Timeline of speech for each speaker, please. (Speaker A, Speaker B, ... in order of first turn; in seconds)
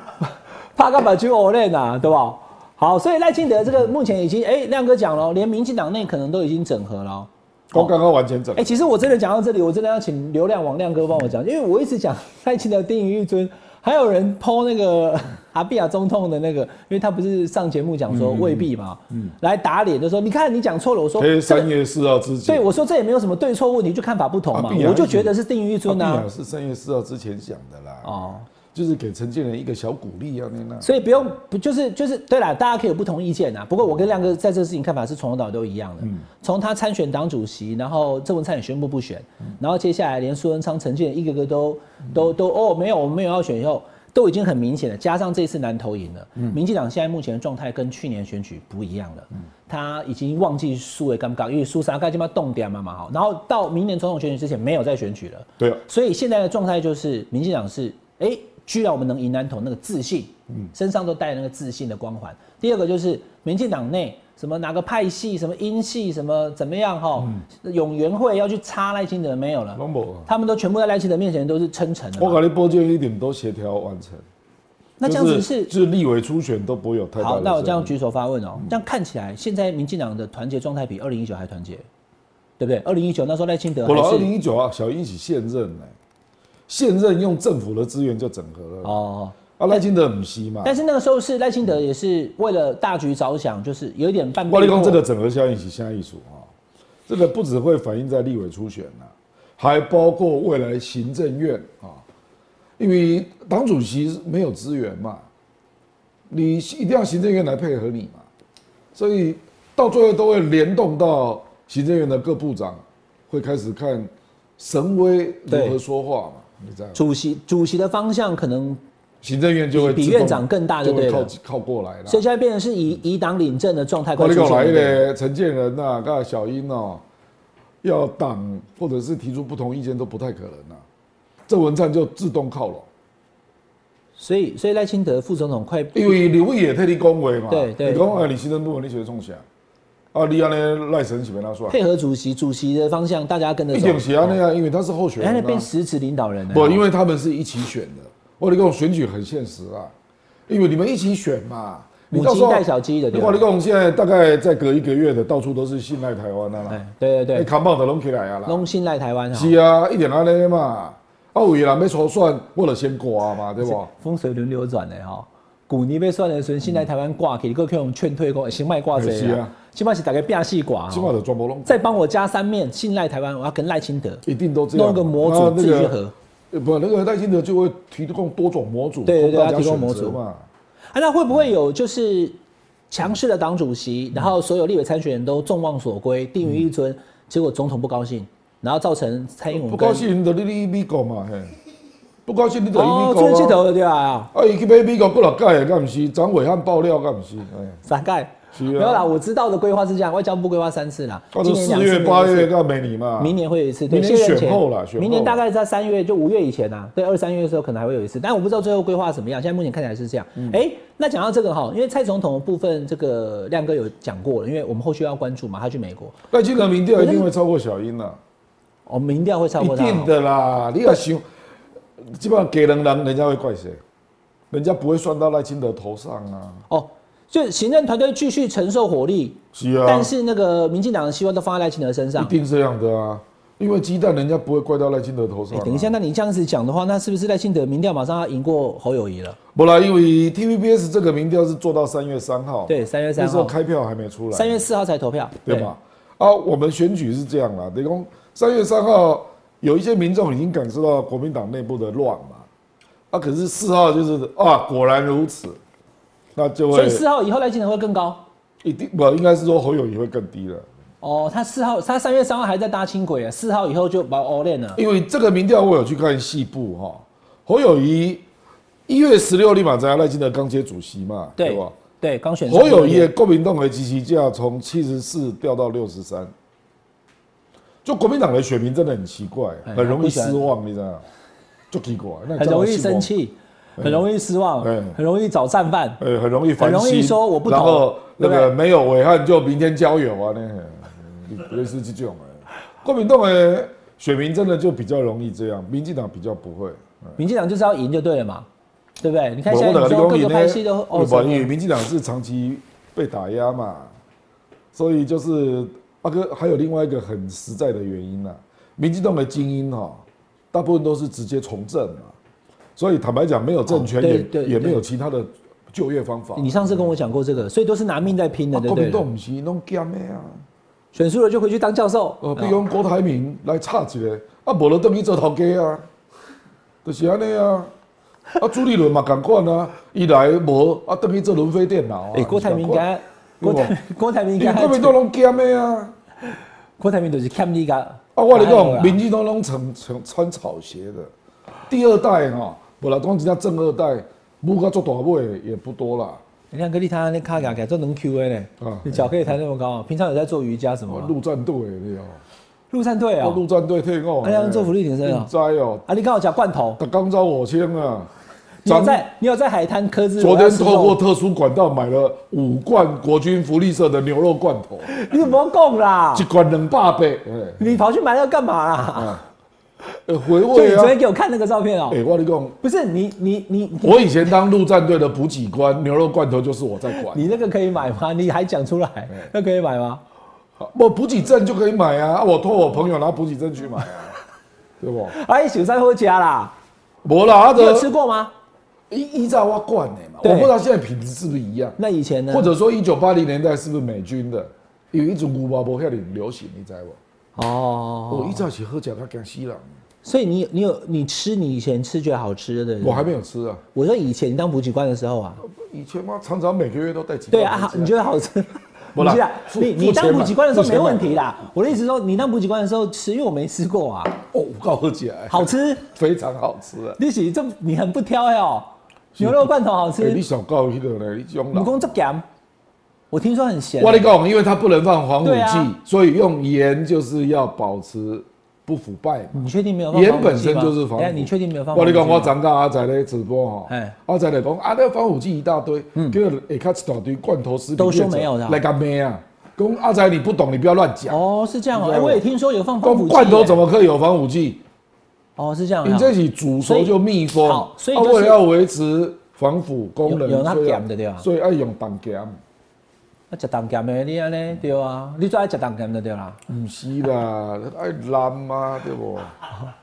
Speaker A: 0.7-7.9, 8.6-21.7, 22.4-26.2, 28.0-28.5, 30.8-72.4, 75.0-75.7, 77.2-81.8, 82.6-84.3, 88.8-89.8, 90.6-95.0, 115.5-115.8, 116.9-118.8, 119.7-121.3, 122.1-125.0, 134.2-136.2, 137.5-138.1, 141.7-144.4, 145.2-146.8, 152.1-153.4, 156.7-157.5, 158.4-159.5, 163.6-171.1, 171.7-176.1, 179.0-180.2, 180.9-182.4, 182.9-190.1, 192.7-194.3, 197.8-202.5, 203.2-216.2, 216.9-217.3, 218.9-220.1, 226.7-232.3, 235.5-239.4, 242.7-243.5, 244.3-245.7, 256.7-258.2, 261.0-264.8, 271.4-273.1, 279.7-280.4, 282.4-286.0, 286.6-288.5, 297.2-298.5, 299.0-301.5, 313.7-314.8, 316.4-319.0, 320.9-322.6, 332.1-334.9, 336.8-339.0, 346.5-351.1, 352.7-353.4, 354.2-355.3, 355.9-356.8, 358.6-361.0, 364.9-366.3, 367.6-369.2, 370.5-372.0, 372.6-374.2, 377.1-380.0, 385.1-386.5, 387.5-388.3, 390.2-390.5, 391.8-392.5, 397.4-398.4, 400.0-403.1, 403.7-405.4, 407.3-414.2, 415.3-415.8, 417.0-420.2, 421.5-422.2, 423.1-424.1, 425.2-425.7, 429.3-432.4, 433.7-434.0, 437.8-438.6, 441.1-443.6, 445.4-448.4, 450.0-451.3, 453.3-456.4
Speaker B: 7.7-8.8, 18.1-19.3, 21.2-22.7, 24.5-25.3, 25.9-31.2, 69.8-70.3, 72.2-74.2, 75.0-77.9, 83.8-85.9, 86.7-89.0, 89.6-90.8, 94.5-96.5, 97.1-102.0, 102.8-105.2, 106.3-108.2, 108.9-117.0, 119.2-122.2, 124.1-127.0, 127.8-130.8, 131.5-132.9, 135.9-139.4, 140.1-141.8, 143.7-145.7, 146.5-149.9, 150.5-156.8, 157.3-158.7, 159.3-163.9, 168.9-169.5, 170.9-171.8, 174.2-176.0, 176.5-180.4, 189.5-191.5, 192.2-193.6, 194.3-197.8, 198.5-199.1, 201.3-203.3, 203.9-205.4, 210.3-210.6, 216.3-218.2, 219.6-221.2, 222.0-223.8, 224.5-226.6, 229.5-230.1, 232.2-235.9, 239.5-244.6, 245.4-252.4, 253.1-255.6, 256.4-257.0, 258.6-260.7, 264.8-268.2, 268.9-271.7, 272.4-276.3, 277.8-281.0, 281.7-283.1, 283.8-284.0, 284.6-285.0, 286.0-297.2, 299.5-303.9, 304.7-312.1, 312.8-316.9, 318.5-320.4, 322.2-325.8, 326.8-327.7, 328.4-332.8, 333.4-333.8, 334.4-335.9, 338.1-341.1, 341.7-346.2, 348.6-349.1, 350.9-352.2, 353.2-355.8, 356.8-358.1, 358.6-359.0, 360.2-365.0, 366.1-367.8, 368.9-369.2, 370.1-371.0, 371.9-372.6, 373.8-377.4, 380.6-384.1, 384.8-385.1, 387.0-387.9, 388.9-391.8, 392.3-397.0, 398.1-399.7, 402.8-403.6, 405.4-408.0, 408.9-411.2, 414.3-417.0, 419.1-421.9, 423.8-441.2, 441.7-442.2, 442.8-444.6, 445.8-452.4, 456.5-459.3